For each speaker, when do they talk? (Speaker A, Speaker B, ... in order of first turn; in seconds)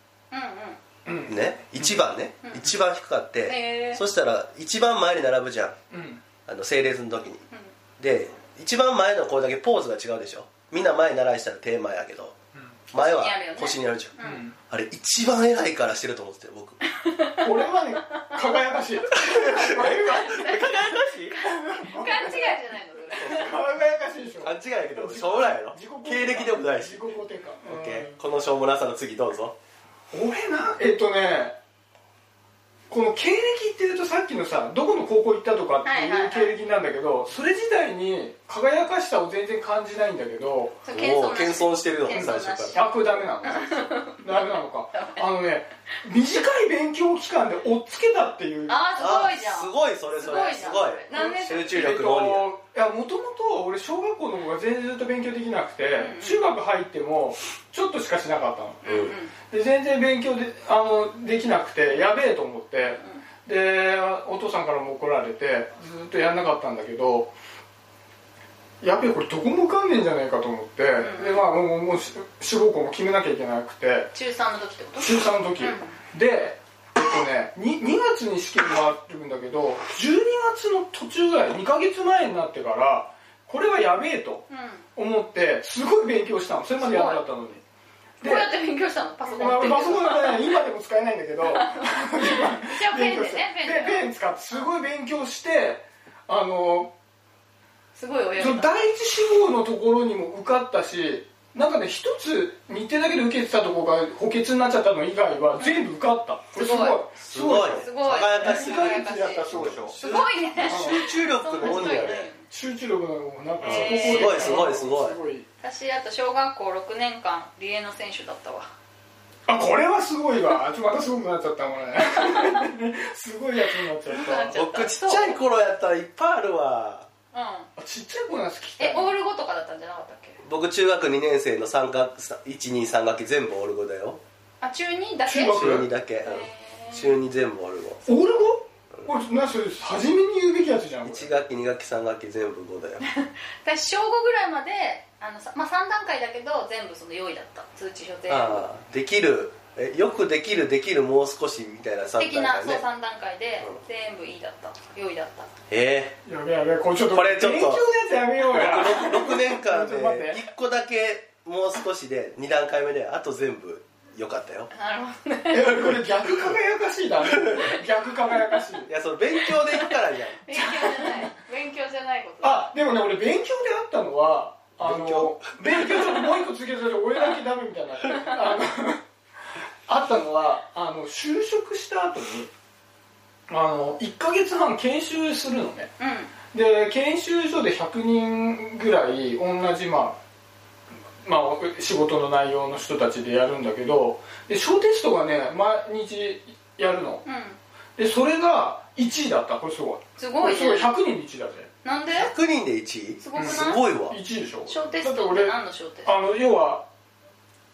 Speaker A: 0.3-0.8, 2.4-2.8, 3.4-4.0, 12.9-14.4, 16.9-18.8, 19.7-20.7, 21.3-23.5, 35.8-36.5, 40.8-45.2, 48.7-51.8, 56.0-56.5, 58.8-59.3, 62.8-63.2, 71.0-71.5, 74.1-76.0, 84.5-84.8, 86.8-87.2, 88.2-90.4, 91.4-94.7, 97.9-98.7, 105.6-105.9, 106.5-107.0, 107.7-112.5, 113.6-114.7, 115.6-118.7, 122.0-122.6, 124.0-125.4, 127.3-127.7, 128.8-130.4, 134.6-137.2, 143.0-148.7, 152.2-155.5, 164.7-165.7, 169.4-172.7, 178.1-178.6, 186.0-186.3, 197.2-197.6, 200.2-200.9, 201.8-202.3, 203.2-203.8, 204.7-206.2
Speaker B: 1.1-2.0, 5.9-6.2, 14.2-14.6, 17.4-22.6, 23.1-28.2, 30.1-31.6, 32.9-40.8, 42.1-48.8, 51.1-58.8, 59.5-67.3, 68.8-74.1, 75.0-87.6, 88.2-88.5, 89.2-96.9, 98.3-111.0, 111.6-115.5, 119.5-124.5, 127.8-129.1, 135.2-135.9, 138.0-141.3, 156.2-160.4, 165.5-168.9, 170.5-171.3, 172.4-179.0, 179.9-182.5, 183.5-185.9, 186.5-190.2, 191.2-197.2, 198.0-201.7, 203.3-206.8
Speaker C: 1.3-5.8, 6.5-7.4, 8.0-12.3, 12.9-14.2, 14.7-16.8, 19.1-21.4, 23.2-23.5, 24.4-27.0, 27.6-29.5, 40.9-42.8, 49.0-52.5, 58.8-59.1, 107.2-112.3, 113.6-115.2, 124.5-127.1, 130.4-134.2, 135.5-138.0, 141.0-143.0, 148.3-152.8, 155.7-156.2, 157.1-157.8, 158.4-164.7, 167.3-167.7, 168.9-170.4, 174.8-176.2, 202.1-204.2